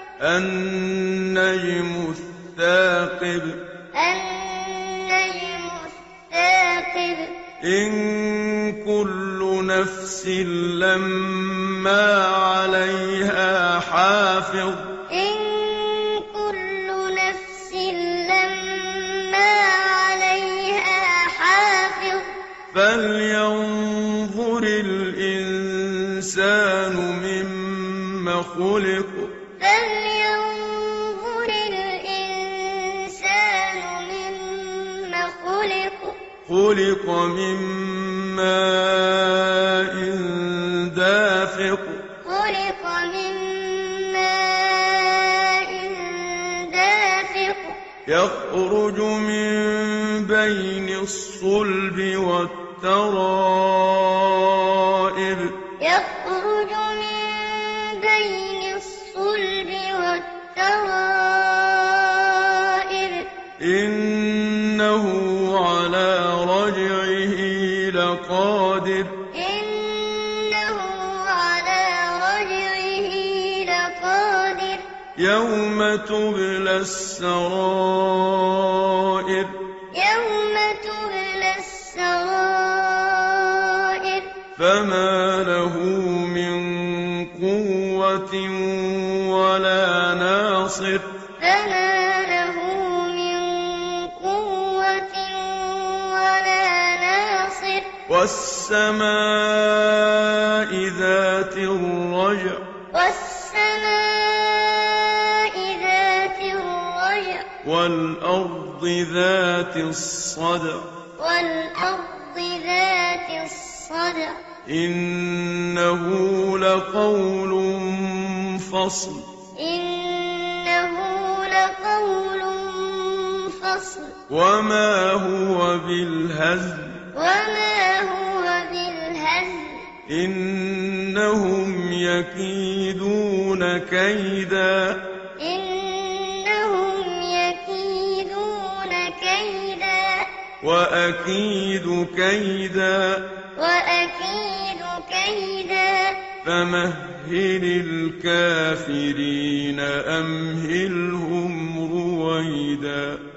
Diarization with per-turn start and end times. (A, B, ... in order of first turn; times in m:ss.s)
0:00.2-0:03.6 A
0:03.9-0:07.4 B
0:07.6-0:14.9 A
0:15.1-0:22.3 B
0:22.7-0:29.3 A
0:29.6-0:36.2 B
0:36.4-0:42.0 A
0:42.2-0:47.8 B
0:48.0-0:55.6 A
0:55.8-1:03.3 B
1:03.6-1:09.2 A
1:09.3-1:14.9 B
1:15.2-1:19.6 A
1:19.9-1:24.3 B
1:24.6-1:31.1 A
1:31.4-1:37.9 B
1:38.1-1:42.6 A
1:42.9-1:47.5 B
1:47.6-1:50.9 A
1:51.2-1:54.4 B
1:54.6-1:59.3 A
1:59.6-2:04.2 B
2:04.3-2:07.0 A
2:07.1-2:09.9 B
2:10.1-2:15.0 A
2:15.4-2:20.3 B
2:20.6-2:23.3 A
2:23.6-2:26.2 B
2:26.4-2:33.2 A